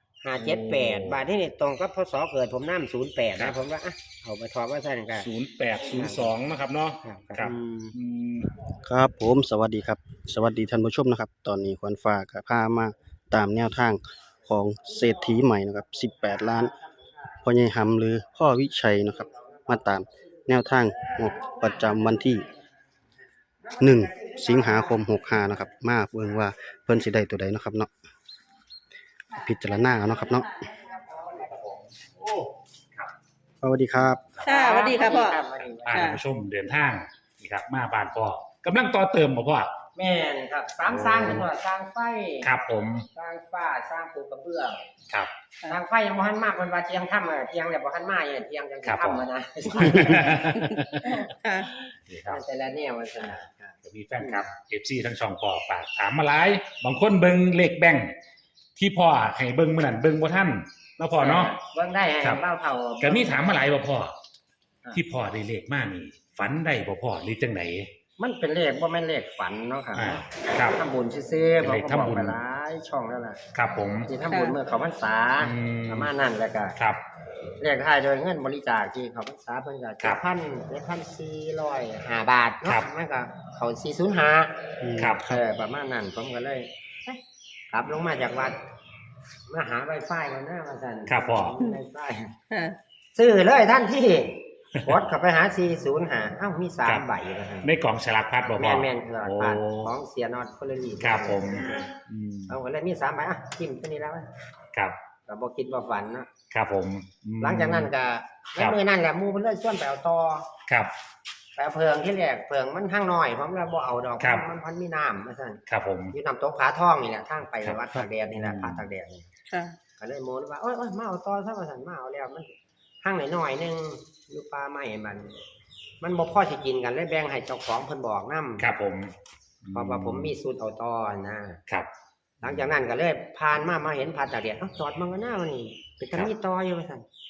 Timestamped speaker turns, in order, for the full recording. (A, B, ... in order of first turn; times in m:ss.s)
0:00.2-0:05.3 A
0:00.4-0:01.2 B
0:05.1-0:08.5 B
0:05.8-0:06.4 A
0:07.0-0:07.4 A
0:07.4-0:08.0 C
0:08.8-0:16.8 C
0:17.4-0:22.4 C
0:21.1-0:22.2 A
0:23.7-0:25.0 A
0:23.8-0:27.9 C
0:29.3-0:30.6 C
0:31.3-0:33.1 B
0:33.6-0:34.2 C
0:34.4-0:36.2 A
0:34.4-0:35.4 D
0:35.8-0:39.7 B
0:35.9-0:36.2 D
0:40.0-0:42.5 A
0:40.9-0:41.5 B
0:42.4-0:43.1 B
0:43.1-0:44.9 A
0:45.7-0:50.4 A
0:48.8-0:51.2 B
0:51.2-0:51.7 D
0:52.1-0:52.4 B
0:52.2-0:54.5 A
0:53.8-0:58.1 B
0:58.8-1:01.5 B
1:01.2-1:03.6 A
1:03.0-1:04.2 B
1:04.9-1:07.9 B
1:08.2-1:13.4 A
1:10.0-1:10.8 B
1:11.6-1:12.4 B
1:13.5-1:14.1 B
1:14.1-1:16.8 A
1:14.3-1:14.6 D
1:15.4-1:16.1 B
1:17.6-1:24.6 A
1:24.8-1:25.2 C
1:25.0-1:25.4 B
1:25.2-1:27.2 A
1:27.7-1:28.6 A
1:29.5-1:32.3 A
1:31.1-1:31.5 B
1:32.5-1:32.8 D
1:33.2-1:37.7 A
1:37.6-1:39.9 B
1:38.4-1:41.8 A
1:41.0-1:42.5 B
1:42.5-1:44.3 A
1:45.3-1:46.3 A
1:46.5-1:47.9 B
1:47.4-1:50.5 A
1:50.7-1:50.9 B
1:51.6-1:55.6 A
1:54.2-1:54.4 B
1:55.7-1:56.2 B
1:56.1-1:59.3 A
1:57.6-1:58.9 B
1:59.5-1:59.8 D
2:00.0-2:02.5 A
2:03.0-2:05.3 A
2:06.0-2:08.6 A
2:08.6-2:10.3 B
2:09.7-2:11.6 A
2:12.4-2:17.0 A